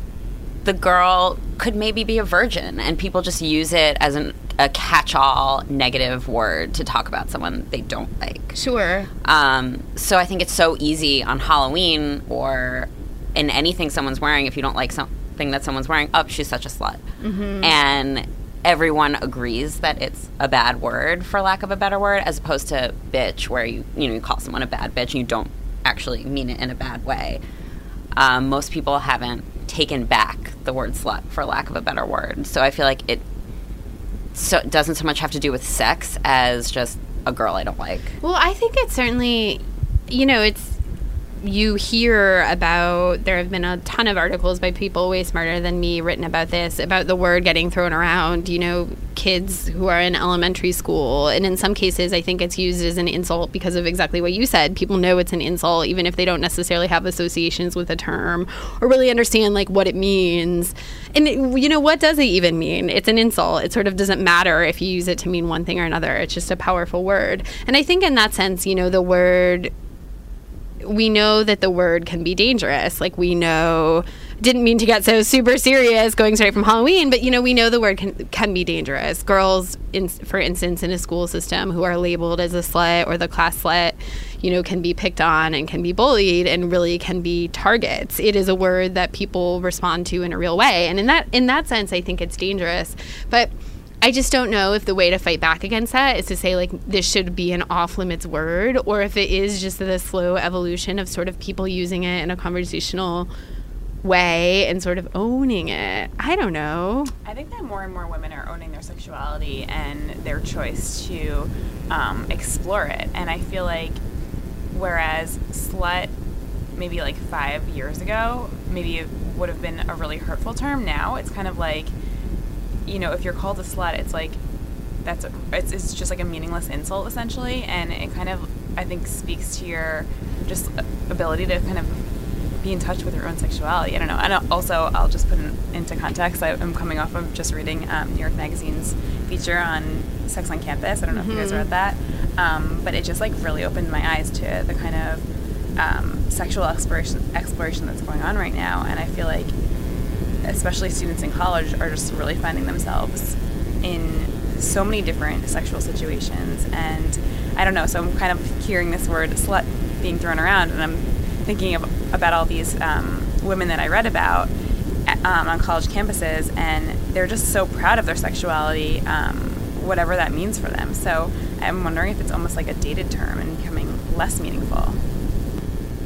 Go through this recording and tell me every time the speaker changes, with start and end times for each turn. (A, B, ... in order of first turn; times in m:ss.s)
0:00.6-0:08.6 A
0:08.5-0:09.1 B
0:09.2-0:17.0 A
0:17.2-0:17.7 B
0:17.6-0:27.4 A
0:28.1-0:33.2 A
0:34.3-0:38.1 A
0:38.2-0:40.8 B
0:41.4-1:09.7 B
1:10.8-1:33.5 B
1:34.0-1:43.3 B
1:44.0-1:47.1 B
1:47.2-1:54.0 C
1:54.7-1:56.1 C
1:56.7-2:01.9 C
2:02.8-2:04.4 C
2:05.0-2:12.0 C
2:12.6-2:25.2 C
2:21.1-2:21.6 B
2:25.8-2:29.5 C
2:30.4-2:44.5 C
2:45.1-2:55.0 C